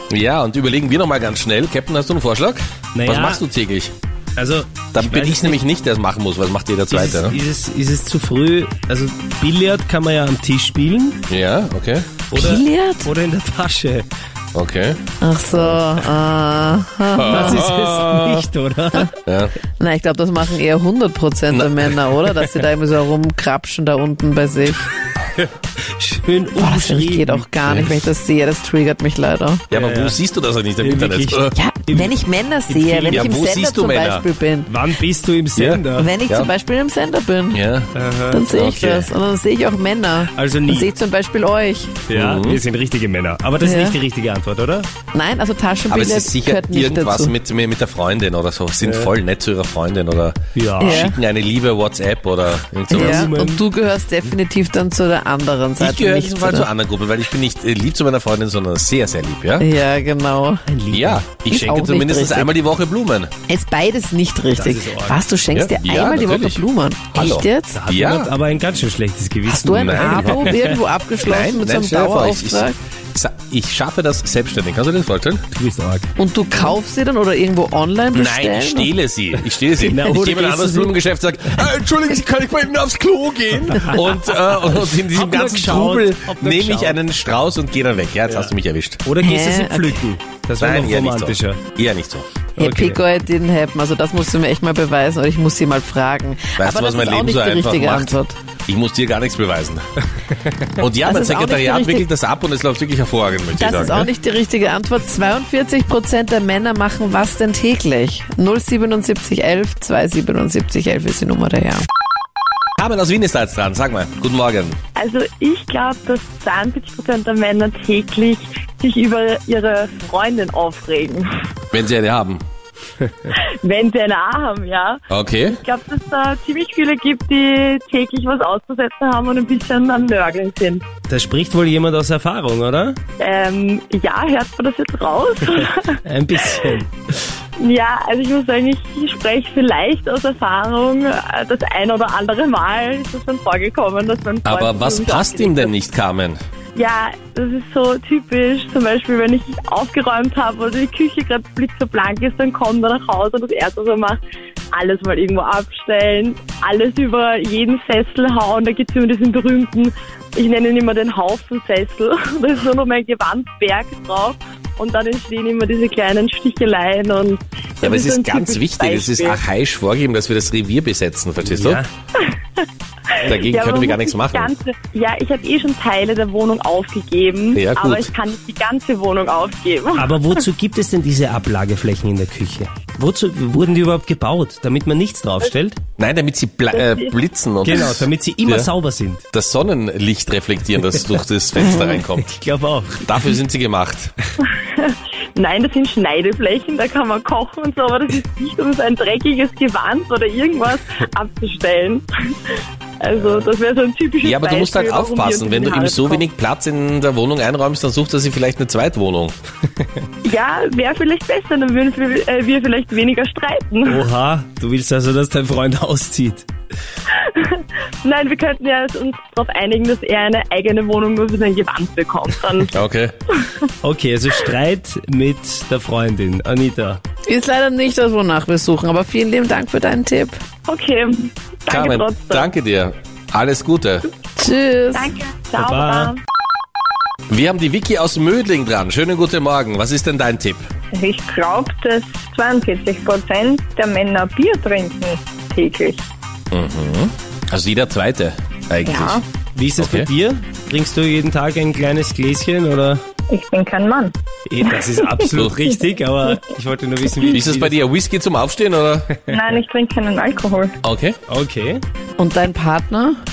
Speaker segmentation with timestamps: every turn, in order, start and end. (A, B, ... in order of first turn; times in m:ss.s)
0:00.1-0:03.9 A
0:02.9-0:03.4 B
0:04.4-0:05.6 B
0:04.9-0:07.4 A
0:06.9-0:11.2 B
0:11.3-0:12.2 A
0:12.3-0:14.1 B
0:12.3-0:13.1 C
0:14.5-0:15.0 A
0:15.2-0:17.6 C
0:17.2-0:18.5 A
0:17.3-0:19.1 B
0:19.3-0:19.5 A
0:19.8-0:24.8 C
0:21.5-0:22.0 A
0:25.4-0:27.9 B
0:26.6-0:29.7 C
0:29.7-0:31.5 A
0:29.7-0:30.2 B
0:30.8-0:32.1 B
0:31.5-0:34.8 C
0:32.7-0:33.3 B
0:33.1-0:34.3 A
0:34.7-0:36.1 B
0:35.6-0:36.5 A
0:35.9-0:37.6 C
0:37.5-0:37.9 A
0:37.9-0:38.5 B
0:38.3-0:42.0 C
0:38.5-0:39.1 A
0:40.3-0:40.9 B
0:42.1-0:44.9 B
0:42.1-0:42.6 A
0:43.6-0:44.0 C
0:45.1-0:47.3 C
0:45.9-0:53.3 A
0:48.8-0:49.1 B
0:50.6-0:51.0 B
0:50.8-0:51.2 C
0:52.9-0:56.7 C
0:52.9-0:53.6 B
0:55.8-0:59.7 A
0:59.6-1:00.7 C
1:00.7-1:01.8 B
1:00.9-1:03.3 A
1:01.4-1:02.5 C
1:03.5-1:07.8 C
1:04.5-1:05.2 B
1:05.5-1:08.3 A
1:07.7-1:10.8 B
1:09.4-1:12.8 C
1:09.7-1:10.5 A
1:11.2-1:15.4 A
1:15.5-1:16.1 B
1:16.2-1:18.9 C
1:18.1-1:29.0 A
1:19.9-1:20.9 B
1:24.7-1:27.0 B
1:28.3-1:28.5 B
1:29.0-1:31.6 B
1:29.2-1:30.1 C
1:30.6-1:32.3 A
1:32.6-1:33.0 B
1:32.6-1:38.4 C
1:36.6-1:39.8 A
1:40.8-1:44.1 A
1:41.0-1:42.1 C
1:43.5-1:51.8 C
1:52.8-1:54.8 A
1:55.0-2:01.3 D
2:01.7-2:02.4 A
2:03.3-2:05.0 D
2:05.1-2:05.6 A
2:05.6-2:10.8 D
2:11.1-2:13.0 B
2:13.2-2:16.0 D
2:16.0-2:16.9 B
2:17.6-2:25.7 D
2:24.4-2:26.4 A
2:26.8-2:34.2 D
2:34.7-2:49.4 D
2:47.8-2:51.8 A
2:51.4-2:51.9 B
2:53.2-3:00.2 D
2:53.2-2:54.5 A
2:57.5-2:58.1 A
3:00.0-3:05.8 B
3:06.0-3:08.7 A
3:06.7-3:07.2 D
3:07.6-3:09.2 B
3:09.3-3:12.4 A
3:11.6-3:12.0 C
3:12.2-3:13.2 B
3:13.0-3:14.1 A
3:14.7-3:22.1 D
3:23.0-3:26.2 D
3:24.2-3:29.3 A
3:30.2-3:34.0 D
3:33.8-3:36.5 B
3:37.2-3:42.7 D
3:42.7-3:43.1 A
3:43.8-3:47.0 B
3:47.3-3:50.4 C
3:50.7-3:52.5 D
3:51.7-3:54.1 A
3:54.4-3:55.1 C
3:54.9-3:56.2 D
3:55.6-3:56.1 B
3:57.3-4:00.6 A
4:00.9-4:06.0 E
4:06.5-4:09.2 A
4:08.8-4:09.2 E
4:09.5-4:13.0 B
4:09.8-4:10.1 A
4:13.3-4:15.3 E
4:14.5-4:17.8 B
4:17.3-4:19.1 A
4:19.3-4:20.7 E
4:20.8-4:21.2 A
4:21.3-4:21.8 B
4:22.2-4:23.2 C